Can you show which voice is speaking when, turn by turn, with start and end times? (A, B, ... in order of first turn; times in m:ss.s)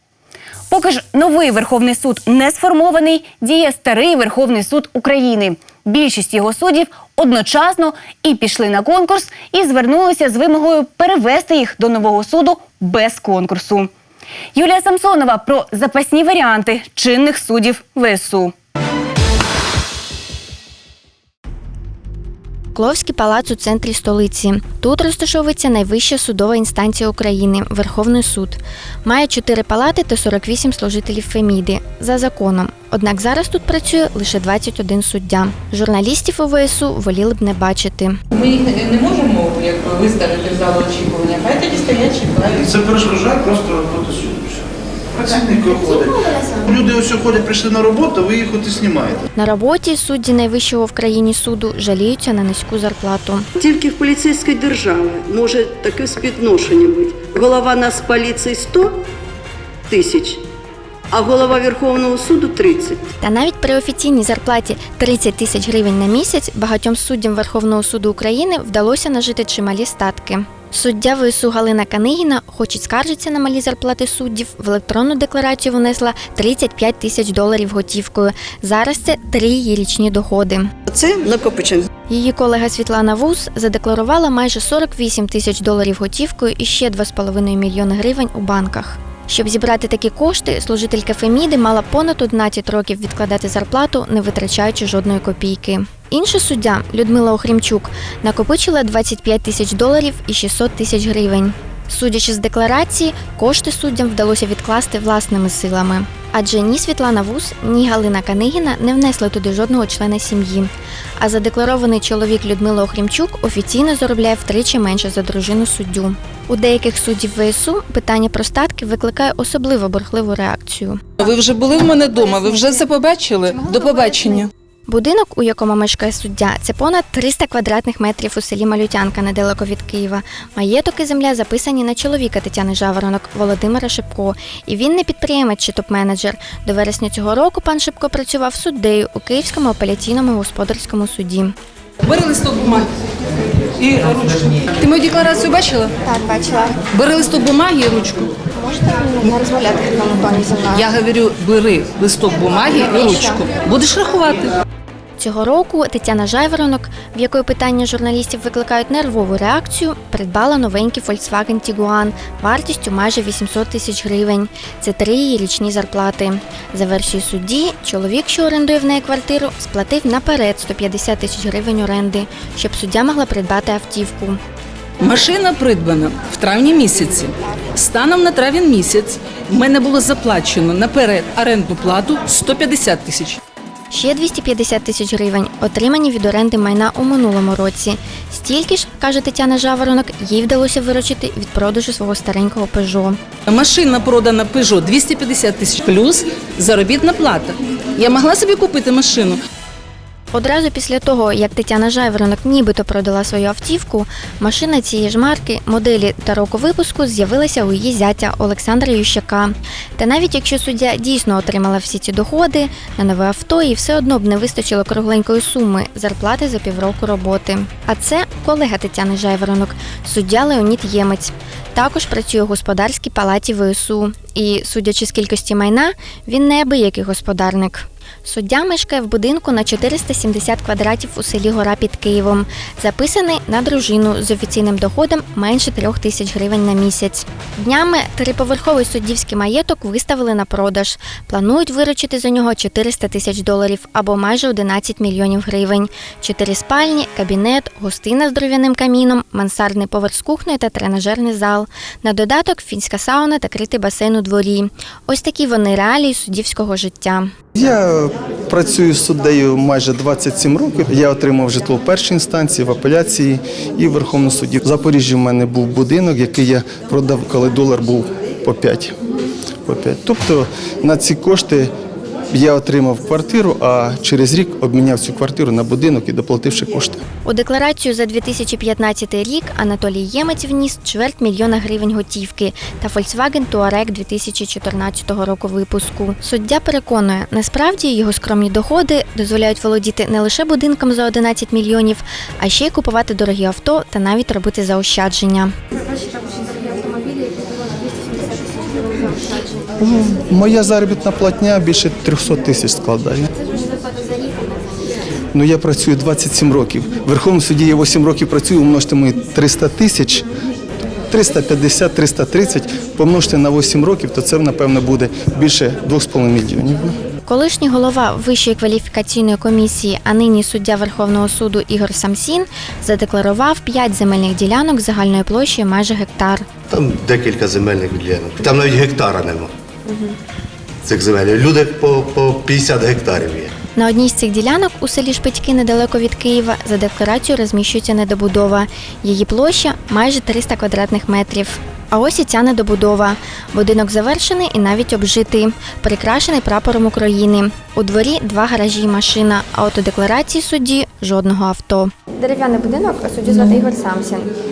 0:00.7-0:13.9 A
0:14.5-0:18.5 A
0:22.7-0:38.2 B
0:38.3-0:42.7 C
0:42.5-0:49.2 D
0:49.4-0:53.5 B
0:53.6-0:58.9 E
0:59.9-1:00.4 E
1:01.1-1:03.0 E
1:03.2-1:20.7 B
1:20.9-1:21.8 E
1:22.1-2:01.0 B
2:01.2-2:04.5 F
2:03.8-2:21.5 B
2:22.0-2:22.9 F
2:23.8-2:25.9 F
2:26.0-2:26.8 B
2:26.9-2:28.3 F
2:28.5-2:30.9 B
2:30.7-2:34.5 F
2:33.0-2:33.4 B
2:35.2-2:54.4 B
2:55.0-3:03.4 F
3:03.9-3:13.2 B
3:13.5-3:19.4 F
3:20.3-4:17.3 B
4:17.6-4:29.0 G
4:29.6-4:31.7 G
4:32.3-4:37.0 G
4:37.2-4:55.5 B
4:56.1-4:56.9 B
4:58.2-4:58.8 B
4:59.8-5:03.3 G
5:05.3-5:10.2 G
5:11.1-5:17.0 G
5:17.2-5:26.5 B
5:26.7-5:29.5 H
5:30.8-5:33.5 H
5:33.8-5:54.3 B